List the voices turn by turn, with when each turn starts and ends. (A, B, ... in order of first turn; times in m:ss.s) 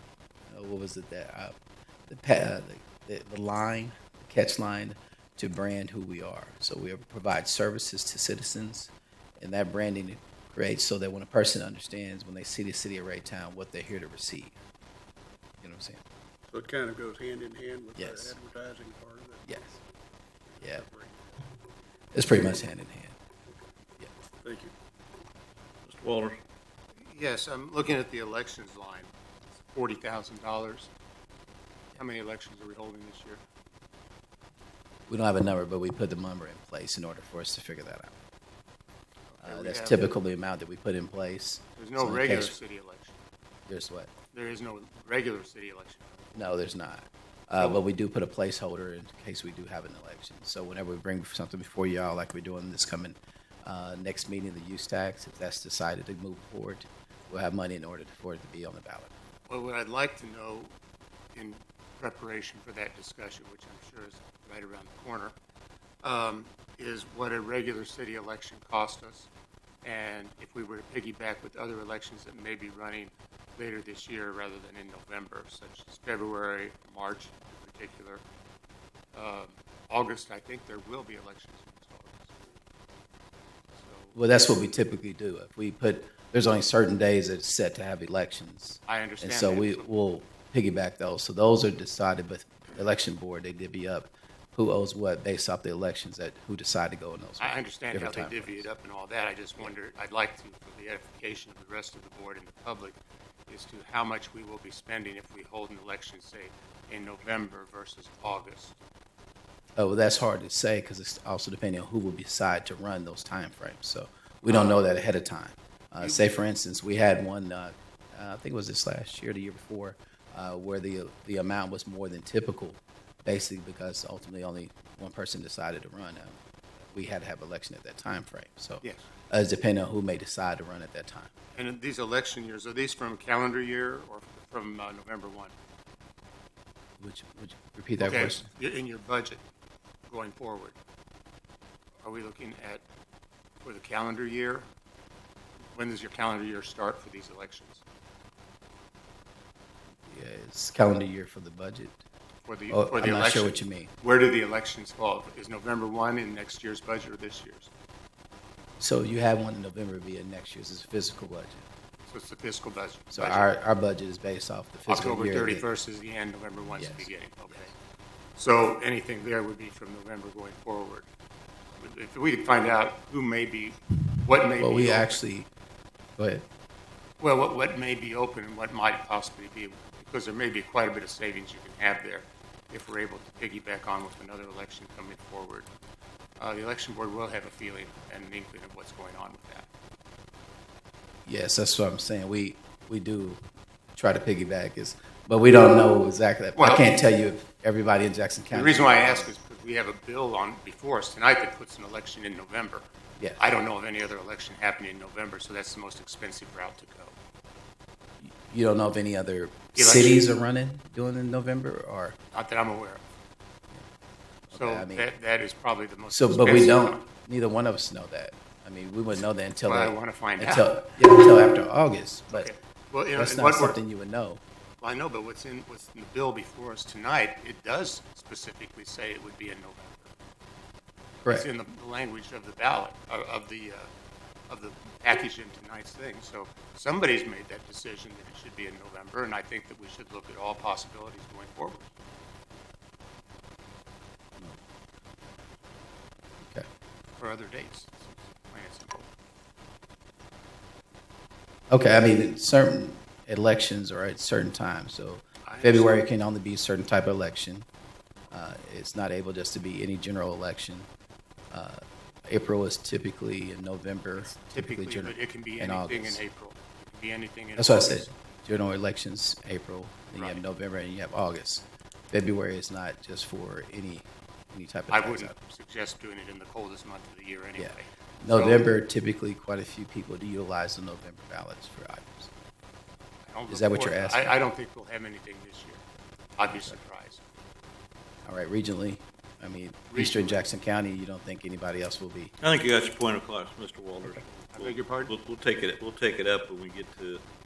0:00.5-0:01.5 A
0:02.1-0:14.6 A
0:15.6-0:16.0 A
0:16.5-0:19.5 B
0:18.0-0:18.4 A
0:19.5-0:19.8 A
0:20.5-0:21.2 B
0:20.6-0:20.8 A
0:22.1-0:23.2 A
0:24.4-0:24.7 B
0:25.9-0:26.4 C
0:27.0-0:30.9 D
0:32.0-0:33.4 D
0:35.1-0:38.2 A
0:39.3-0:40.1 D
0:39.4-0:42.6 A
0:41.8-0:43.2 D
0:43.7-0:44.1 A
0:44.3-0:46.6 D
0:46.4-0:59.1 A
0:47.6-0:47.8 D
0:59.5-1:00.7 D
1:01.3-1:05.3 D
1:06.0-1:09.3 D
1:09.8-1:18.2 D
1:19.1-1:22.4 D
1:23.7-1:24.2 D
1:24.1-1:38.7 A
1:28.9-1:29.9 D
1:37.4-1:48.8 D
1:49.8-2:06.4 A
1:54.4-1:54.8 D
1:56.0-1:56.3 D
2:06.9-2:11.3 A
2:08.8-2:09.1 D
2:11.5-2:15.5 D
2:17.0-2:18.5 A
2:18.0-2:19.4 D
2:20.1-2:20.8 D
2:22.0-2:22.8 D
2:23.6-2:24.7 D
2:25.7-2:27.8 D
2:30.1-2:32.0 A
2:32.4-2:37.7 D
2:32.7-2:33.9 A
2:38.8-2:41.7 A
2:42.1-2:43.5 D
2:43.1-2:45.7 A
2:44.9-2:47.8 D
2:46.8-2:47.7 A
2:48.4-2:51.1 D
2:51.8-2:55.2 D
2:54.6-2:55.5 A
2:56.2-2:56.5 A
2:57.2-3:05.7 D
3:06.4-3:09.7 D
3:11.3-3:13.4 A
3:14.0-3:19.3 A
3:16.6-3:17.0 D
3:18.5-3:27.2 D
3:28.2-3:32.2 A
3:29.8-3:30.2 D
3:32.3-3:33.0 D
3:34.5-3:35.1 A
3:34.5-3:37.0 D
3:36.1-3:42.5 A
3:39.7-3:40.8 D
3:42.3-3:43.8 D
3:43.1-3:44.4 A
3:44.8-3:50.1 D
3:51.2-3:53.9 D
3:54.5-4:01.9 D
4:07.2-4:09.1 D
4:11.7-4:17.7 A
4:15.5-4:16.0 D
4:18.3-4:20.9 A
4:21.5-4:26.2 A
4:24.2-4:28.1 D
4:27.6-4:35.4 A
4:30.2-4:30.4 D
4:34.9-4:38.7 D
4:37.6-4:42.3 A
4:43.3-4:45.8 D
4:43.5-4:44.4 A
4:46.4-4:47.2 D
4:46.5-4:46.8 A
4:48.2-4:52.3 A
4:49.9-4:50.4 D
4:52.4-4:57.2 C
4:54.6-4:55.0 D